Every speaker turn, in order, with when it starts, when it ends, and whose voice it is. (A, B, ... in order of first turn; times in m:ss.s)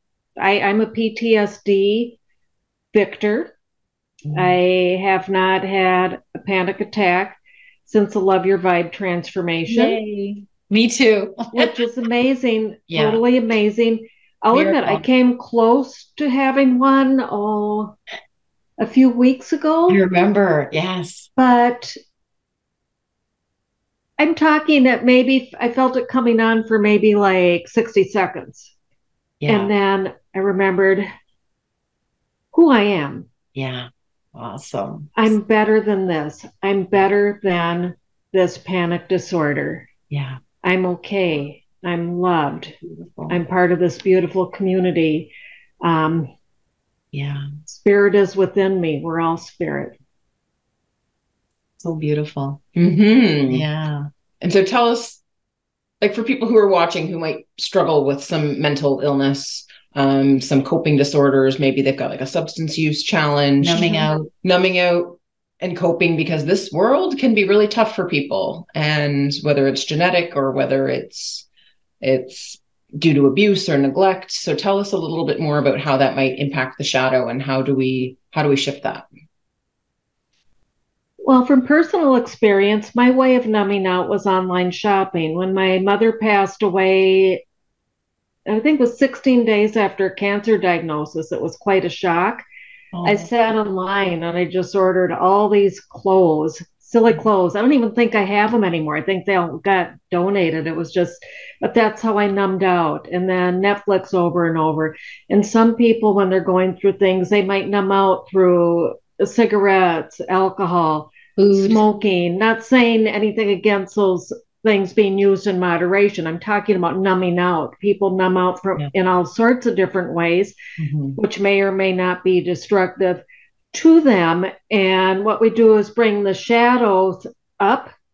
0:00.4-0:02.2 A
0:02.9-0:03.5 A
0:04.3-0:04.6 B
0:04.3-0:10.0 A
0:09.7-0:11.8 B
0:11.5-0:18.0 A
0:12.9-0:13.2 B
0:14.5-0:15.0 B
0:18.8-0:20.0 A
0:19.9-0:21.3 B
0:21.4-0:22.0 A
0:24.2-0:28.7 A
0:29.4-0:29.7 B
0:29.5-0:31.1 A
0:32.5-0:33.3 A
0:33.6-0:35.3 B
0:35.2-0:39.9 A
0:40.1-0:40.4 B
0:40.6-0:42.8 A
0:42.8-0:43.4 B
0:43.3-0:45.3 A
0:45.8-0:46.3 A
0:47.1-0:47.5 B
0:47.7-0:49.9 A
0:51.8-0:52.6 B
0:52.8-0:53.7 C
0:53.5-0:54.1 B
0:54.4-0:55.2 C
0:56.0-1:11.4 C
1:03.6-1:04.3 B
1:12.0-1:19.1 C
1:21.2-1:27.4 A
1:28.5-1:32.4 A
1:32.9-1:33.3 B
1:33.0-2:00.6 A
1:51.4-1:51.8 B
2:00.8-2:01.2 C
2:01.2-2:03.2 A
2:03.7-2:07.9 A